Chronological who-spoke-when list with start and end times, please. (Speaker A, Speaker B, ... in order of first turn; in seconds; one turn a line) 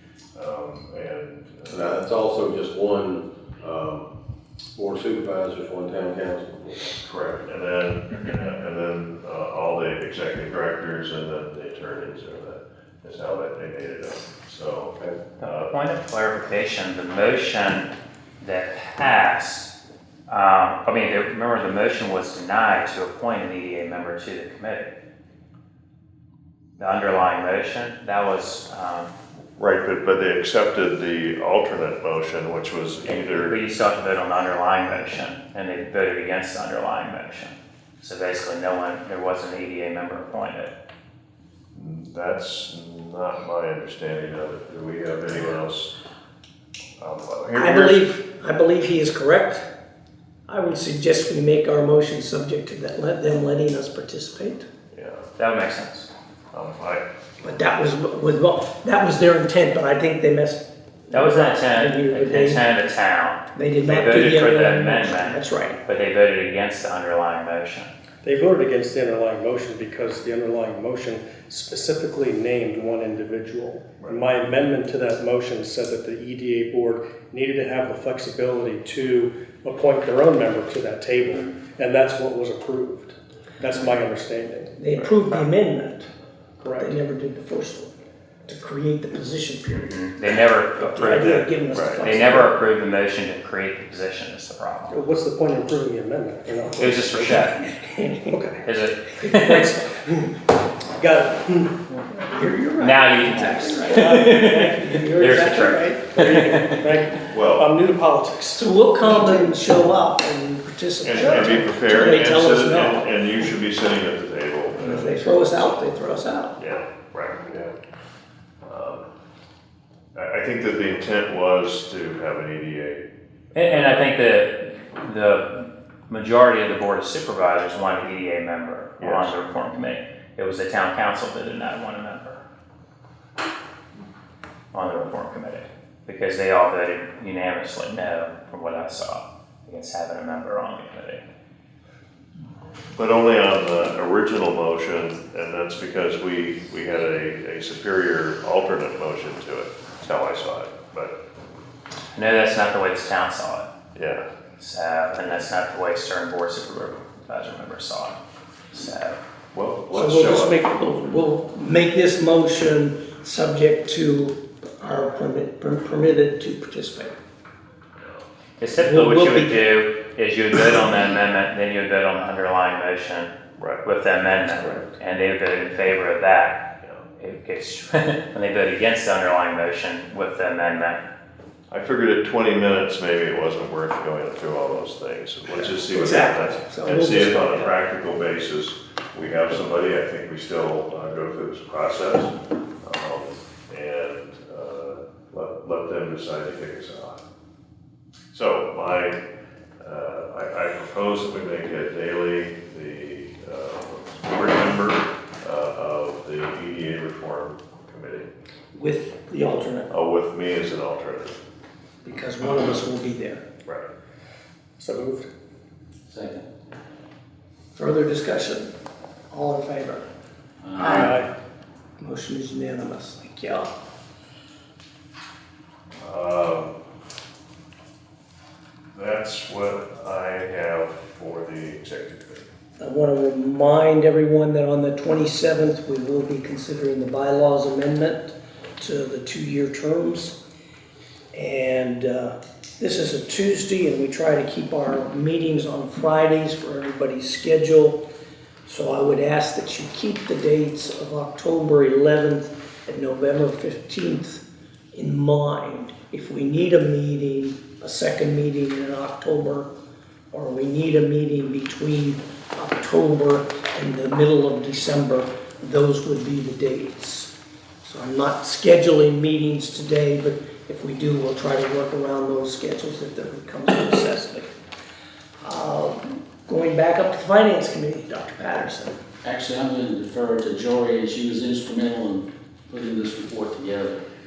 Speaker A: 0.3-2.0
Speaker B: 1.7-4.1
Speaker B: 4.8-7.0
Speaker A: 7.0-15.7
Speaker C: 15.4-19.7
Speaker C: 20.3-24.9
Speaker C: 26.8-29.1
Speaker A: 29.6-33.6
Speaker C: 33.1-40.7
Speaker A: 41.7-45.9
Speaker A: 47.0-48.0
Speaker D: 47.5-49.6
Speaker D: 50.5-54.7
Speaker A: 54.9-55.3
Speaker C: 55.4-56.1
Speaker A: 56.5-57.0
Speaker D: 57.4-62.7
Speaker C: 61.1-67.9
Speaker D: 63.5-65.8
Speaker E: 68.2-85.1
Speaker A: 74.0-74.2
Speaker D: 84.8-86.1
Speaker E: 86.6-86.9
Speaker D: 86.8-87.9
Speaker D: 88.5-90.0
Speaker C: 89.9-95.0
Speaker D: 90.8-92.6
Speaker A: 91.7-92.0
Speaker E: 94.9-97.5
Speaker C: 96.8-97.6
Speaker D: 97.3-98.5
Speaker E: 98.3-98.6
Speaker C: 98.6-99.7
Speaker D: 99.2-100.0
Speaker E: 99.4-100.3
Speaker E: 101.0-101.8
Speaker D: 102.1-106.2
Speaker C: 102.8-106.8
Speaker E: 104.0-104.5
Speaker E: 106.1-109.5
Speaker A: 107.2-107.7
Speaker D: 108.5-113.5
Speaker A: 111.0-115.8
Speaker D: 114.8-116.6
Speaker A: 116.6-117.5
Speaker A: 118.6-119.1
Speaker A: 120.1-123.0
Speaker C: 123.5-132.4
Speaker A: 123.6-124.1
Speaker A: 129.0-129.3
Speaker C: 134.7-141.2
Speaker A: 142.9-151.2
Speaker C: 152.1-153.7
Speaker A: 153.9-154.2
Speaker C: 154.6-158.2
Speaker C: 158.7-159.2
Speaker A: 159.5-160.6
Speaker D: 159.9-167.1
Speaker A: 168.0-168.2
Speaker C: 168.6-173.3
Speaker D: 168.8-169.6
Speaker A: 173.6-173.8
Speaker C: 173.8-176.6
Speaker D: 174.5-174.9
Speaker C: 177.2-181.0
Speaker A: 181.7-197.2
Speaker D: 185.5-187.8
Speaker A: 198.3-199.2
Speaker A: 199.8-208.3
Speaker D: 208.7-209.9
Speaker A: 209.9-211.4
Speaker D: 212.0-213.4
Speaker E: 214.8-215.3
Speaker F: 216.1-216.4
Speaker D: 217.8-218.7
Speaker D: 219.3-220.1
Speaker F: 220.6-221.0
Speaker D: 220.8-221.2
Speaker E: 220.9-221.3
Speaker D: 222.0-223.7
Speaker A: 226.0-226.7
Speaker A: 228.9-232.5
Speaker D: 232.8-240.3
Speaker D: 241.3-248.0
Speaker D: 248.7-254.4
Speaker D: 254.9-259.7
Speaker D: 260.3-267.3
Speaker D: 267.8-274.5
Speaker D: 275.4-278.9
Speaker F: 279.2-284.0